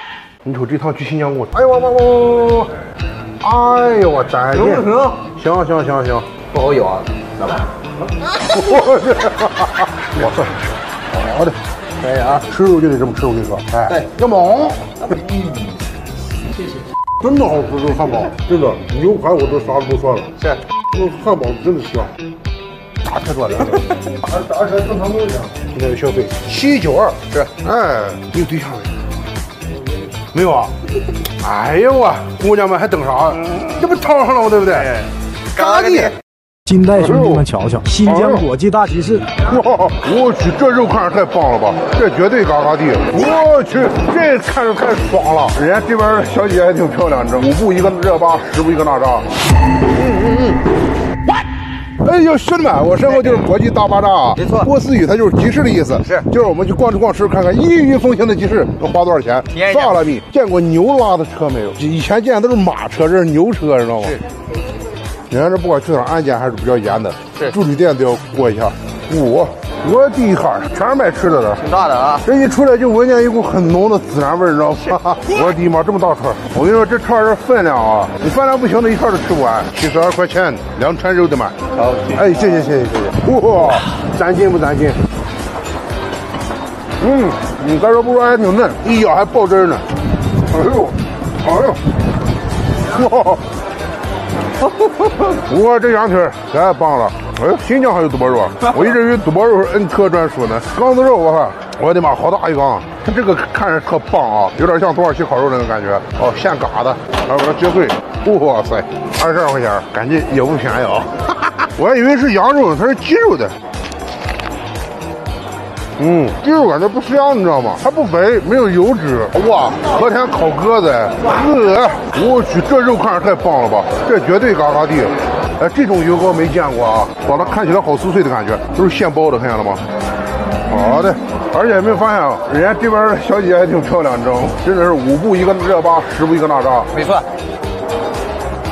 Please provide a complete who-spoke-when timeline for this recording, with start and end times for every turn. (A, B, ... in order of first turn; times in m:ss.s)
0:00.4-0:02.8 A
0:03.4-0:06.3 A
0:04.5-0:05.2 B
0:06.5-0:07.6 B
0:08.4-0:11.6 A
0:12.0-0:12.4 B
0:12.5-0:14.8 A
0:15.0-0:15.7 B
0:17.2-0:20.4 A
0:20.9-0:22.1 A
0:23.0-0:28.9 A
0:30.3-0:30.7 A
0:31.4-0:35.0 A
0:34.8-0:36.2 B
0:35.6-0:36.1 A
0:36.7-0:39.2 C
0:36.9-0:37.5 A
0:38.0-0:38.5 A
0:39.4-0:49.3 A
0:52.0-1:04.2 A
0:53.1-0:53.5 B
0:54.4-0:54.7 B
0:56.0-0:56.2 B
0:59.5-1:00.0 B
1:05.3-1:11.6 A
1:11.6-1:12.2 B
1:12.2-1:21.6 A
1:15.0-1:15.5 B
1:21.8-1:22.3 B
1:22.1-1:25.0 A
1:27.0-1:29.8 A
1:30.5-1:31.8 A
1:32.9-1:33.4 A
1:35.3-1:53.5 A
1:56.0-2:09.8 A
2:10.7-2:16.9 A
2:16.9-2:17.2 B